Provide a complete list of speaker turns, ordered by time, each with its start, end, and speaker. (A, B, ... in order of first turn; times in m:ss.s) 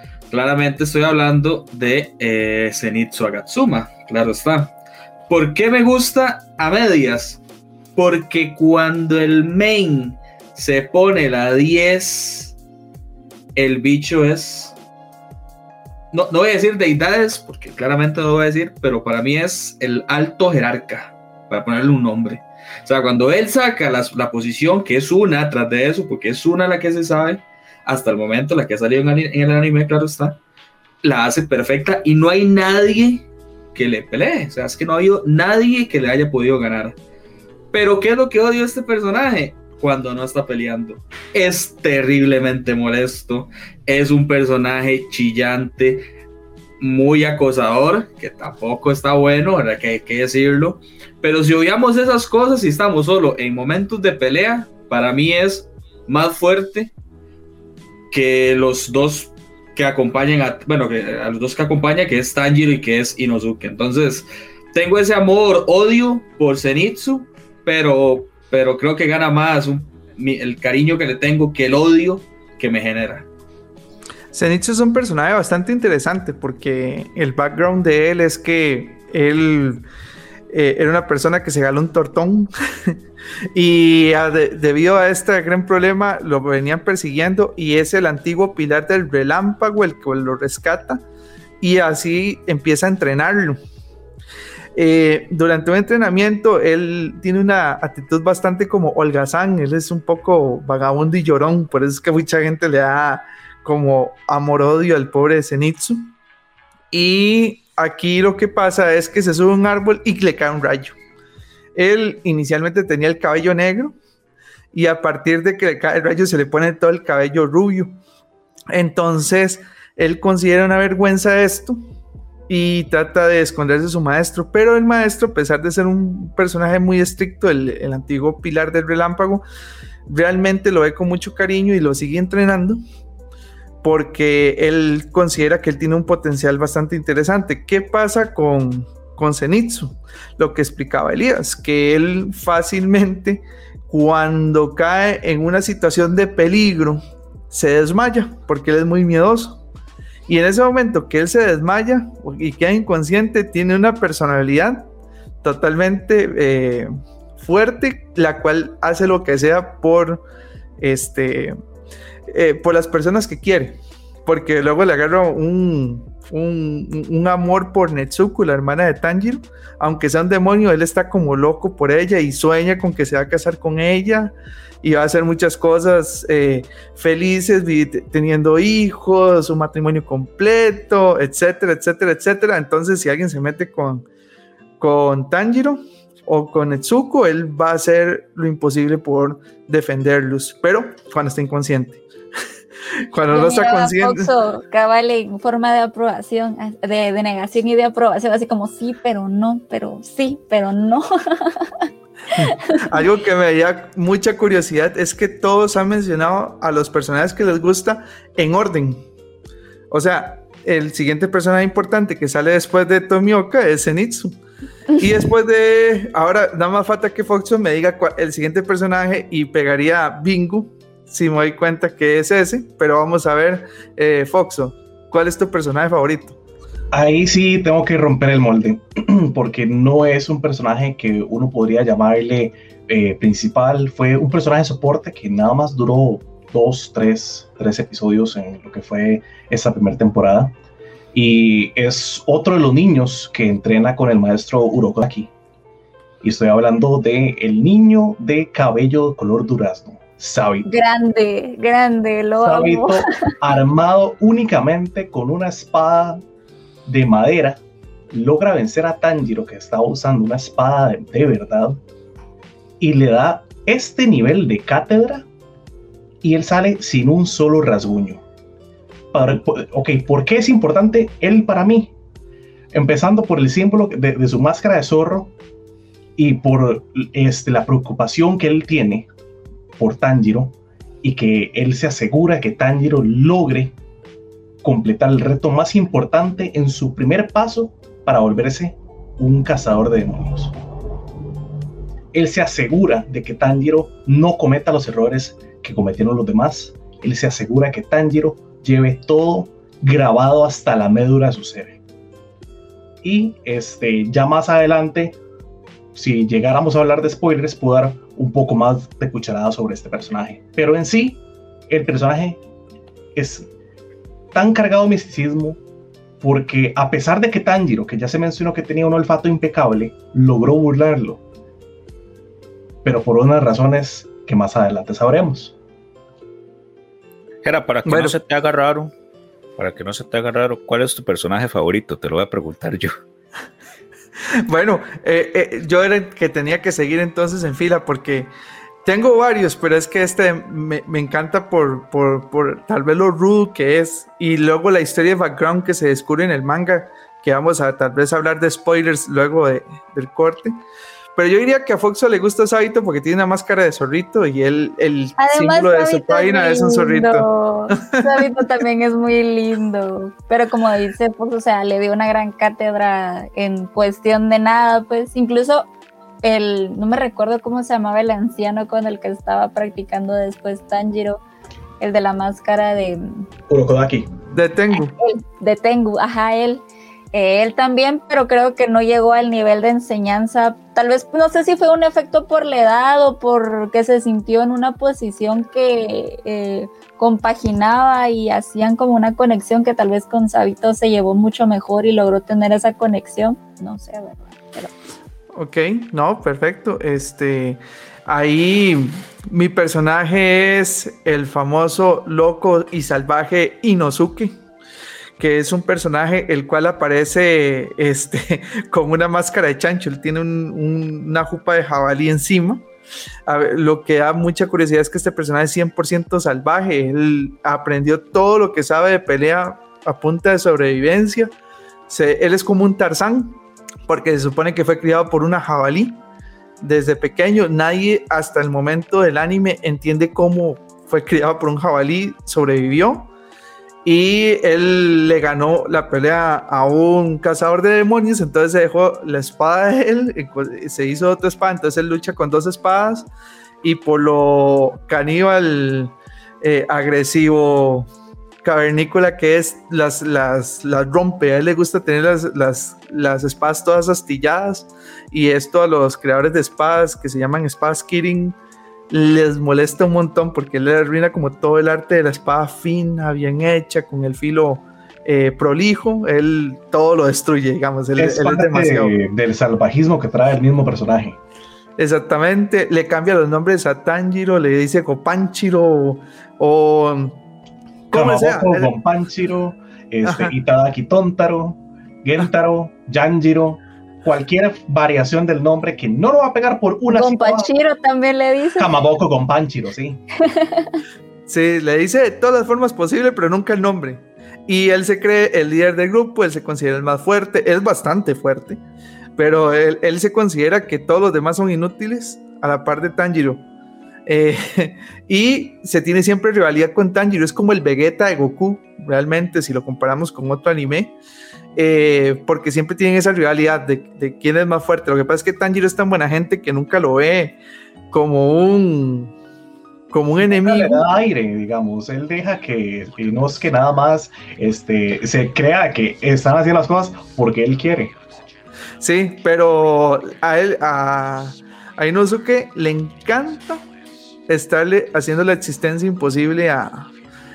0:00.3-0:04.7 A
0:05.3-0:07.4 A
0:08.0-0:12.6 A
0:13.6-0:14.7 A
0:16.1-0:30.4 A
0:31.0-0:37.0 A
0:37.7-0:46.1 A
0:46.8-0:56.9 A
0:58.1-1:13.3 A
1:14.3-1:19.9 B
1:20.5-1:23.0 B
1:23.6-1:31.0 B
1:31.6-1:33.6 B
1:34.8-1:46.1 B
1:46.9-1:51.0 B
1:51.8-1:54.0 B
1:54.7-1:58.0 B
1:58.7-2:01.8 B
2:02.5-2:09.4 B
2:10.1-2:12.8 B
2:13.8-2:29.6 B
2:30.3-2:34.9 B
2:35.4-2:40.2 B
2:40.8-2:41.6 B
2:42.3-3:04.1 B
3:04.8-3:12.0 B
3:13.1-3:14.3 B
3:13.3-3:21.7 C
3:22.4-3:22.8 C
3:22.4-3:29.0 B
3:29.9-3:34.4 B
3:35.0-3:46.4 B
3:46.9-4:00.6 D
4:01.1-4:05.3 D
4:06.2-4:10.7 D
4:10.6-4:13.2 C
4:12.4-4:16.2 D
4:16.9-4:17.6 D
4:18.1-4:21.8 D
4:22.8-4:25.3 D
4:26.2-4:28.2 D
4:29.1-4:31.9 D
4:32.7-4:35.3 D
4:36.2-4:39.1 D
4:39.8-4:43.8 D
4:44.6-4:50.6 D
4:52.1-5:01.8 D
5:03.0-5:05.2 D
5:06.0-5:12.4 D
5:13.2-5:13.5 D
5:14.3-5:15.6 D
5:16.2-5:21.2 D
5:22.8-5:25.6 D
5:27.4-5:28.9 E
5:27.9-5:28.2 B
5:29.6-5:32.9 E
5:34.4-5:38.3 B
5:38.8-5:50.6 B
5:51.2-5:58.5 B
5:55.2-6:05.7 C
6:06.2-6:11.2 C
6:11.8-6:13.3 C
6:13.5-6:14.1 D
6:14.3-6:15.0 B
6:15.0-6:16.6 C
6:17.1-6:34.7 C
6:35.4-6:44.4 B
6:45.2-6:52.6 B
6:53.3-7:01.3 B
7:01.9-7:06.0 B
7:06.6-7:13.1 B
7:13.8-7:23.1 B
7:23.6-7:27.9 B
7:28.4-7:38.4 B
7:38.9-7:49.0 B
7:48.0-7:51.2 D
7:51.8-7:57.2 B
7:57.9-7:58.7 B
7:57.9-8:07.5 D
8:00.0-8:00.4 B
8:06.9-8:08.7 C
8:08.6-8:10.0 D
8:10.2-8:10.8 C
8:11.3-8:18.6 B
8:19.2-8:23.4 B
8:24.1-8:30.9 B
8:31.6-8:37.4 B
8:37.9-8:39.1 B
8:39.9-8:40.8 B
8:40.3-8:48.0 D
8:48.8-8:53.6 B
8:54.3-8:56.9 B